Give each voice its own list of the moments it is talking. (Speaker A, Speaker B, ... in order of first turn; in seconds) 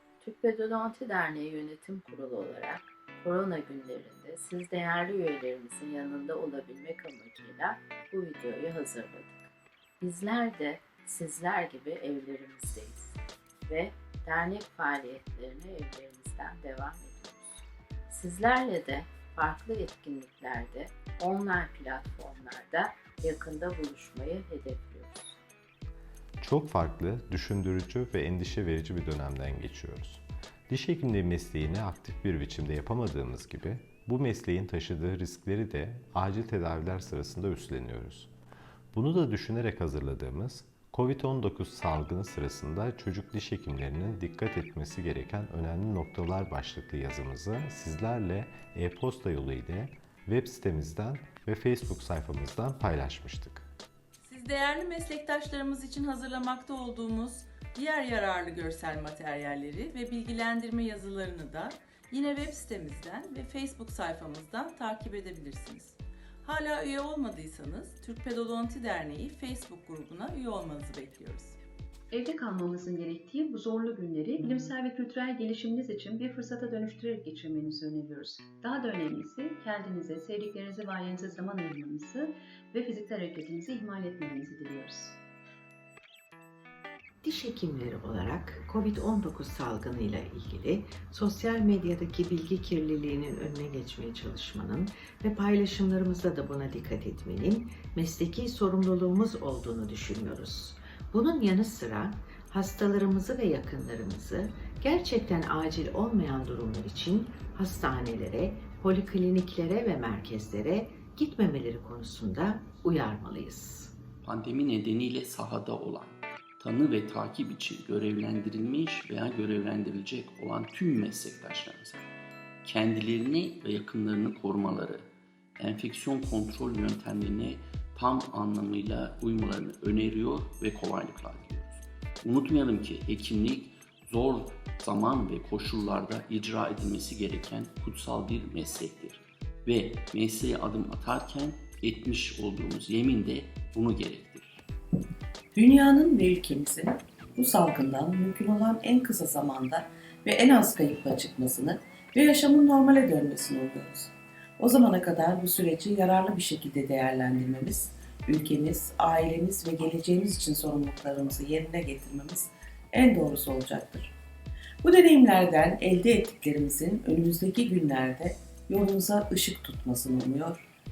Speaker A: 0.2-9.5, 10.0-25.4
Speaker B: 26.4-38.3, 39.0-53.6
Speaker C: 54.2-71.6
Speaker D: 72.1-85.2
Speaker E: 87.2-113.9
Speaker F: 114.2-122.1, 122.6-125.1, 125.6-144.6
Speaker G: 145.5-164.1, 164.8-170.6